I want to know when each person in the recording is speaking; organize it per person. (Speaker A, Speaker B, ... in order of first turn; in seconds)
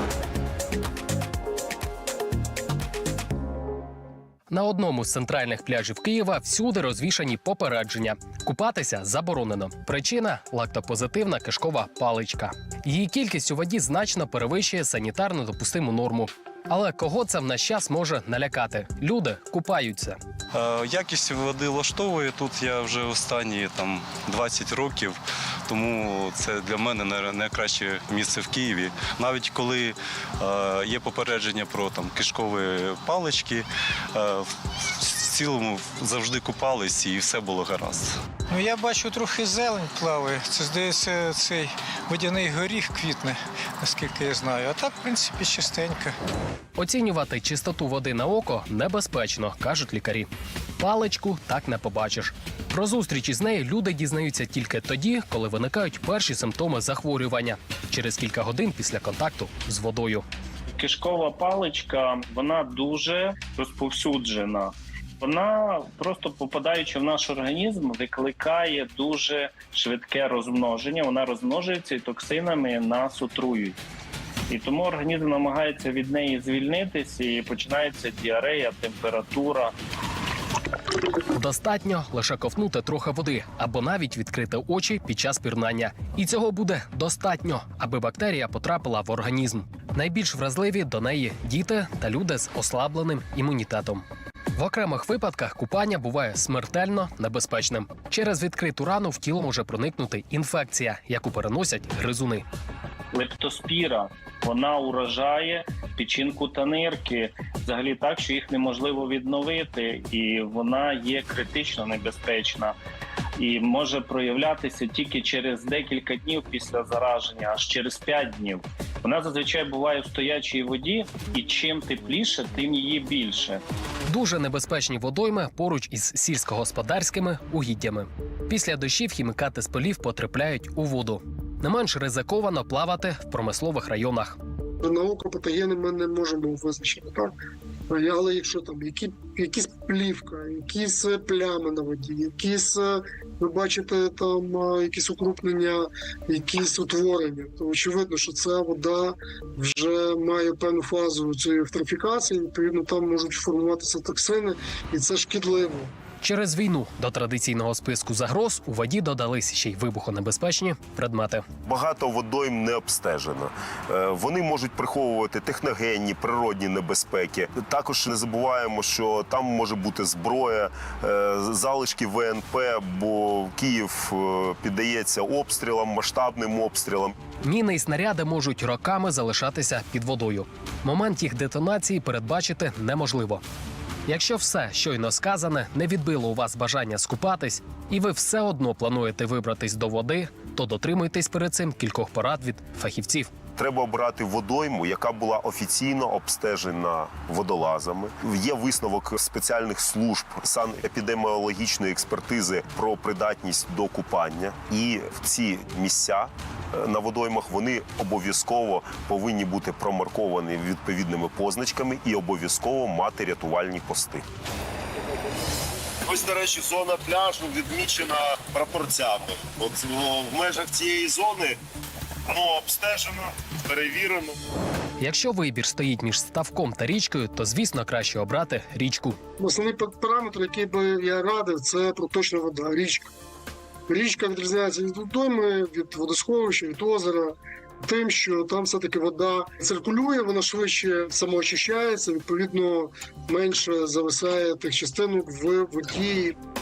Speaker A: 4.5-20.2, 46.8-60.2, 81.3-94.0, 94.5-102.4, 124.0-134.4, 156.2-161.4, 177.4-183.4, 184.1-193.3, 225.0-229.2
Speaker B: 20.5-38.1
Speaker C: 38.5-46.1
Speaker D: 60.7-73.8, 74.5-79.7, 103.1-112.7, 113.4-123.6
Speaker E: 134.8-137.3, 137.9-155.9, 229.4-233.1, 233.9-246.4
Speaker F: 161.7-177.2, 193.6-214.2, 216.1-221.6, 222.3-224.3